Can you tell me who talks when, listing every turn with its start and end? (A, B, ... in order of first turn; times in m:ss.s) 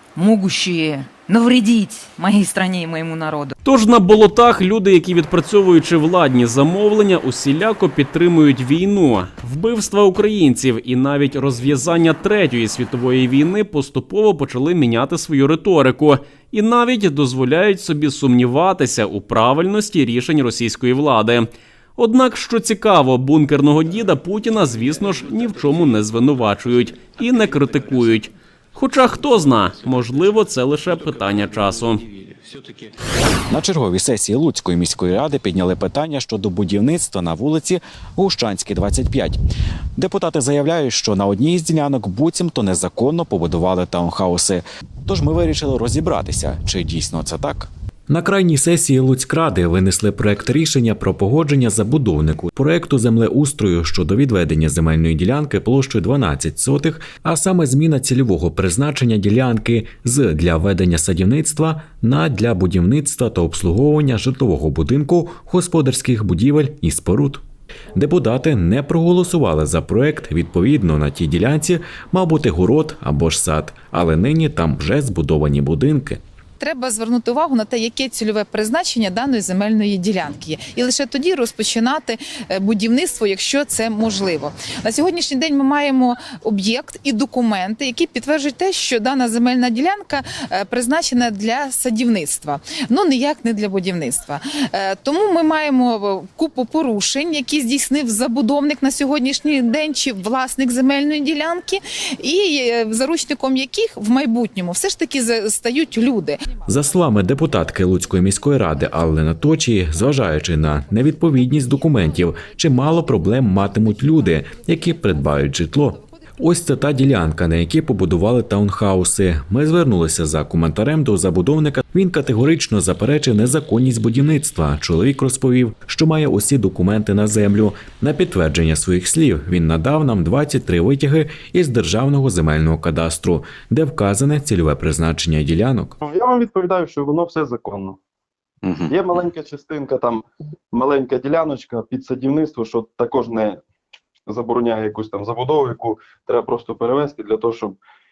0:00.1-0:03.5 A
0:03.6-0:32.0 B
0:33.5-0:39.4 C
0:40.0-1:07.4 C
1:07.9-1:16.2 C
1:16.6-1:46.5 D
1:46.6-2:15.9 C
2:16.0-2:18.0 E
2:18.8-2:23.6 E
2:24.3-2:27.8 E